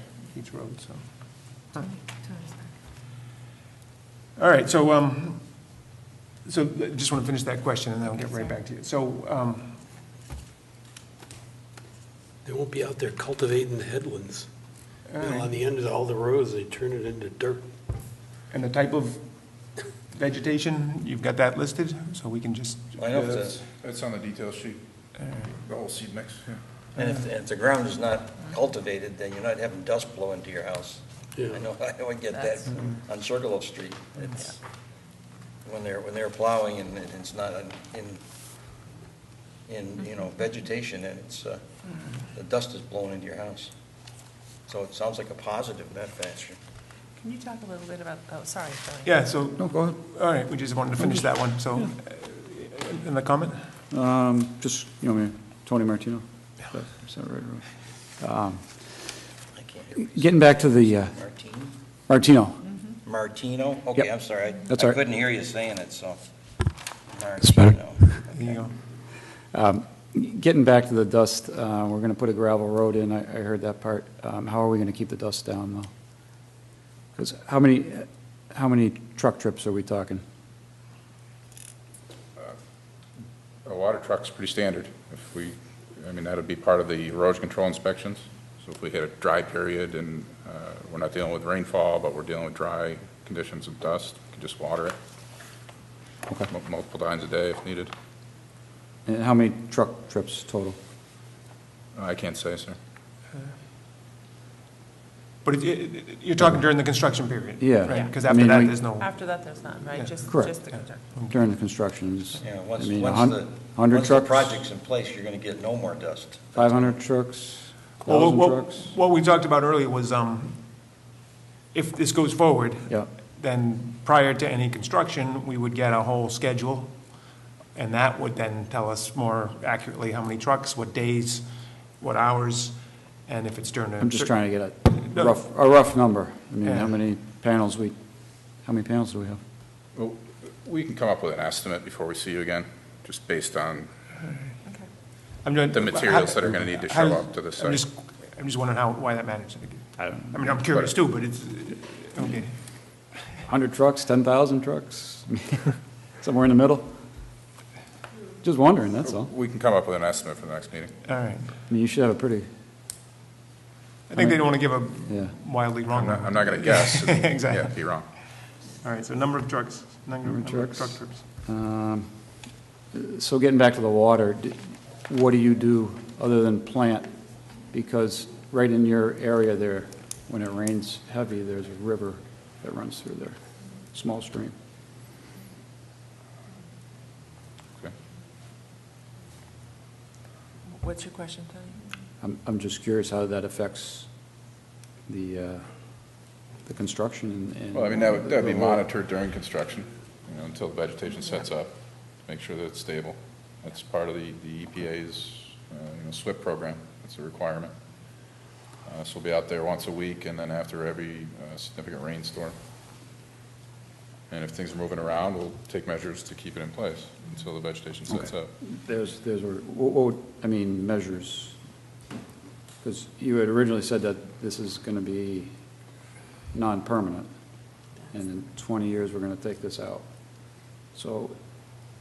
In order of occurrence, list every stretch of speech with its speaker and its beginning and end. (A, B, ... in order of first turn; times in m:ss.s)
0:00.3-0:01.0 A
0:04.4-0:05.4 A
0:06.4-0:09.8 A
0:12.4-0:14.5 B
0:15.1-0:15.4 A
0:15.2-0:17.6 B
0:18.5-0:19.3 A
0:20.1-0:23.0 A
0:23.0-0:23.6 C
0:23.1-0:24.8 D
0:25.6-0:26.6 D
0:27.0-0:34.6 C
0:31.4-0:31.6 B
0:35.6-0:38.2 C
0:39.7-0:41.6 C
0:42.3-0:43.7 C
0:44.7-0:46.6 C
0:47.2-0:49.2 E
0:49.0-0:53.6 A
0:49.6-0:50.0 F
0:51.0-0:51.9 F
0:53.9-0:57.7 F
0:58.2-0:58.7 F
0:59.6-1:01.7 C
1:00.0-1:01.2 F
1:02.1-1:02.7 F
1:03.0-1:06.2 C
1:04.7-1:05.0 F
1:07.1-1:08.5 C
1:07.5-1:07.8 F
1:08.3-1:08.8 A
1:09.5-1:15.9 F
1:17.2-1:20.2 F
1:23.6-1:35.0 D
1:36.5-1:37.9 D
1:39.1-1:40.8 F
1:42.0-1:42.8 D
1:45.4-1:49.1 A
1:47.6-1:48.8 F
1:49.0-1:51.0 E
1:49.9-1:51.4 A
1:50.2-1:50.6 F
1:51.2-1:54.6 F
1:52.4-1:57.0 C
1:56.6-1:58.9 F
1:58.0-2:00.6 A
2:01.7-2:07.0 A
2:07.8-2:11.4 A
2:12.0-2:14.4 A
2:14.0-2:18.0 F
2:15.0-2:15.4 A
2:16.6-2:17.0 A
2:18.6-2:19.4 F
2:20.0-2:23.9 D
2:25.4-2:32.6 A
2:25.7-2:27.8 D
2:30.0-2:30.6 F
2:33.5-2:36.9 F
2:38.4-2:39.3 F
2:39.0-2:40.9 D
2:41.1-2:41.5 A
2:41.7-2:42.5 F
2:44.1-2:47.8 A
2:44.2-2:45.3 F
2:45.9-2:48.1 D
2:48.8-2:51.2 A
2:50.2-2:52.1 F
2:52.9-2:57.1 F
2:57.7-3:03.4 F
3:03.9-3:04.5 F
3:10.8-3:11.7 E
3:12.2-3:14.1 F
3:15.1-3:15.6 F
3:16.6-3:18.8 F
3:17.7-3:27.7 D
3:28.9-3:32.6 D
3:34.3-3:38.5 D
3:38.1-3:41.6 F
3:42.8-3:45.5 F
3:46.5-3:47.3 F
3:48.1-3:50.0 F
3:50.9-3:51.4 F